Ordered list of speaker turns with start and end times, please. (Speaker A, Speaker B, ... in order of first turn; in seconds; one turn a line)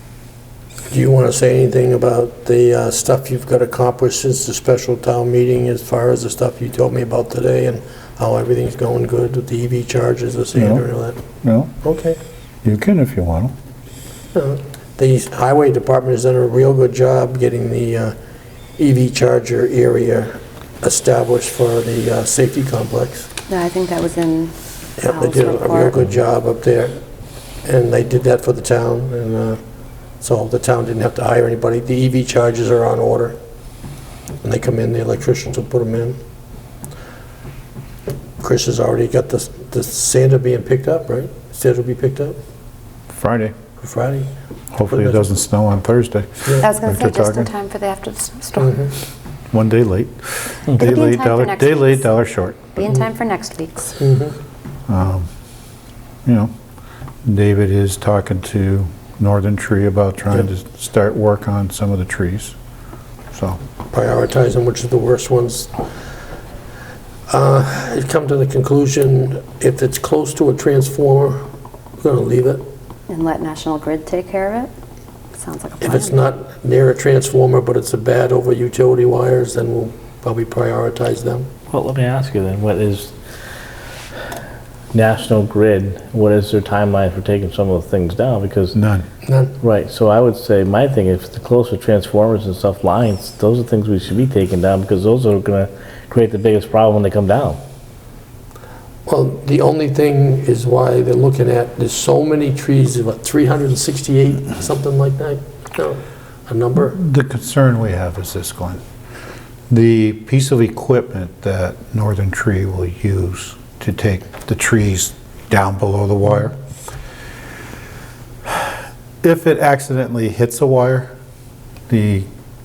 Speaker A: 0.9-11.2
Speaker B: 10.6-10.8
Speaker B: 11.4-11.7
Speaker A: 11.8-12.2
Speaker B: 12.6-13.5
Speaker A: 14.3-18.1
Speaker A: 18.8-23.3
Speaker C: 23.5-26.0
Speaker A: 25.0-27.0
Speaker A: 27.6-29.6
Speaker A: 30.2-33.4
Speaker A: 34.4-36.2
Speaker A: 38.4-42.4
Speaker B: 43.1-43.5
Speaker A: 43.8-44.3
Speaker B: 44.7-47.5
Speaker A: 44.9-45.3
Speaker C: 46.6-48.8
Speaker A: 48.6-48.9
Speaker B: 49.5-52.7
Speaker C: 50.8-52.0
Speaker C: 52.6-54.0
Speaker A: 54.0-54.4
Speaker B: 54.9-55.3
Speaker B: 56.3-56.5
Speaker B: 57.2-62.6
Speaker B: 63.3-63.6
Speaker A: 63.9-65.7
Speaker A: 67.3-71.4
Speaker A: 72.0-72.6
Speaker C: 73.1-74.7
Speaker C: 75.3-76.2
Speaker A: 75.8-81.5
Speaker D: 81.7-83.1
Speaker D: 84.9-88.8
Speaker B: 88.7-89.0
Speaker A: 89.2-89.5
Speaker D: 89.6-97.6
Speaker A: 99.1-107.0
Speaker B: 106.9-108.8
Speaker B: 109.7-116.6
Speaker B: 119.2-121.1
Speaker B: 121.9-122.3